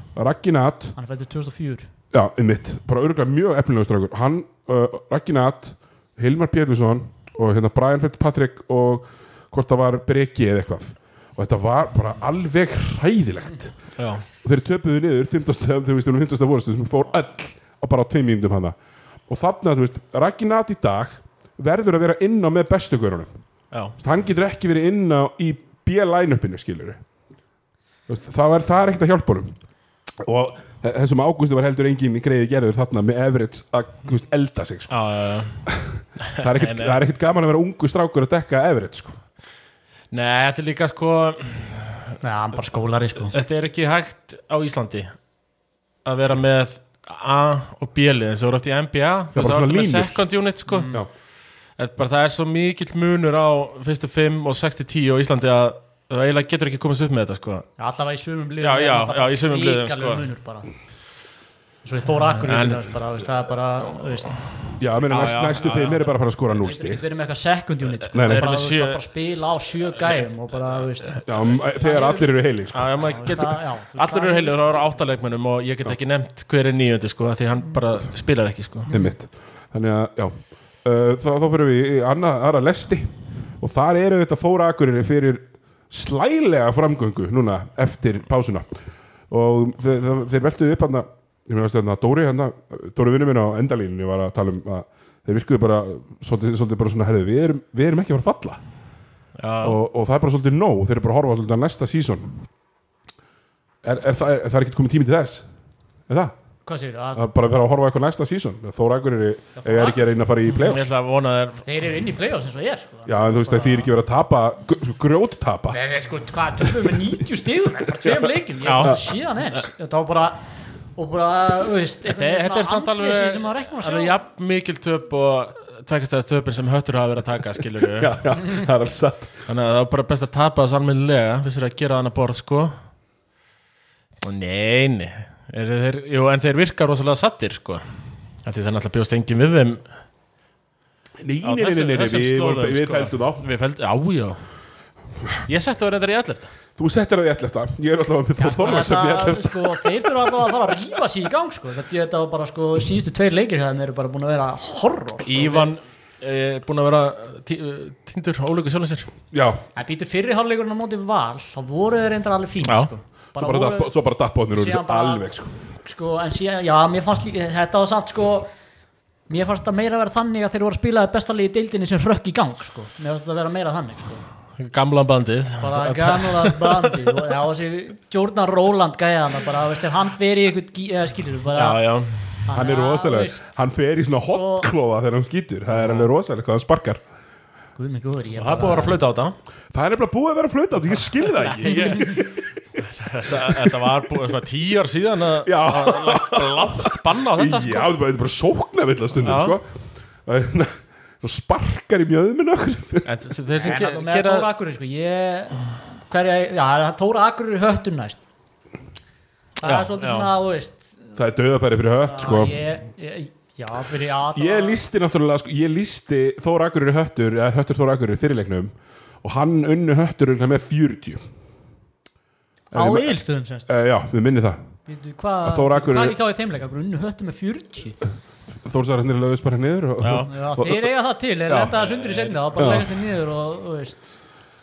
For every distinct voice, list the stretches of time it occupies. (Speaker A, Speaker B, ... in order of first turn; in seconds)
Speaker A: 0.1-0.9, 2.1-13.8, 14.4-18.8, 19.3-23.3, 24.0-27.0, 28.1-29.5, 30.2-35.0, 35.7-39.2, 49.3-50.2, 64.8-67.0, 68.1-68.5, 71.2-73.0, 78.9-88.7, 89.3-98.6, 99.6-102.4, 103.8-105.4, 106.1-106.3, 107.1-110.9, 113.0-115.8, 118.0-119.0, 127.9-129.3, 141.2-143.4, 146.8-150.3, 159.3-159.6, 163.3-165.5, 182.5-187.0, 189.7-192.5, 193.2-193.8, 195.4-199.7, 200.2-203.1, 211.1-212.6, 214.3-221.2, 222.7-223.2, 223.7-224.6, 225.4-226.2, 228.6-230.9, 231.5-231.7, 232.6-232.9
Speaker B: 0.9-1.9, 42.2-43.3, 50.7-51.0, 57.8-60.7, 61.8-64.6, 65.6-72.3, 73.0-74.8, 106.7-107.3, 109.5-110.0, 111.6-113.9, 115.7-120.4, 121.0-124.2, 148.4-155.7, 159.8-163.9, 164.5-165.3, 165.8-168.5, 169.3-174.2, 175.6-181.8, 182.5-183.6, 184.3-184.7, 187.8-189.0, 191.6-192.2, 203.6-208.2, 209.6-210.9, 212.0-214.8, 222.7-223.7, 224.9-228.0, 230.2-234.1
Speaker C: 14.0-14.2, 34.9-35.6, 36.2-37.0, 40.1-42.1, 43.3-45.1, 46.0-50.9, 51.8-57.7, 58.6-60.3, 62.4-62.9, 65.1-66.1, 68.2-69.0, 72.7-78.9, 99.4-99.8, 110.5-111.6, 118.6-119.0, 122.0-128.6, 129.5-132.7, 134.2-137.8, 138.4-139.8, 141.4-144.4, 145.4-146.5, 155.2-159.1, 174.6-177.2, 181.5-182.4, 185.7-186.1, 188.4-189.3, 191.4-192.3, 192.9-197.9, 199.2-199.6, 203.1-204.5, 209.6-210.3, 230.0-230.3, 231.8-232.4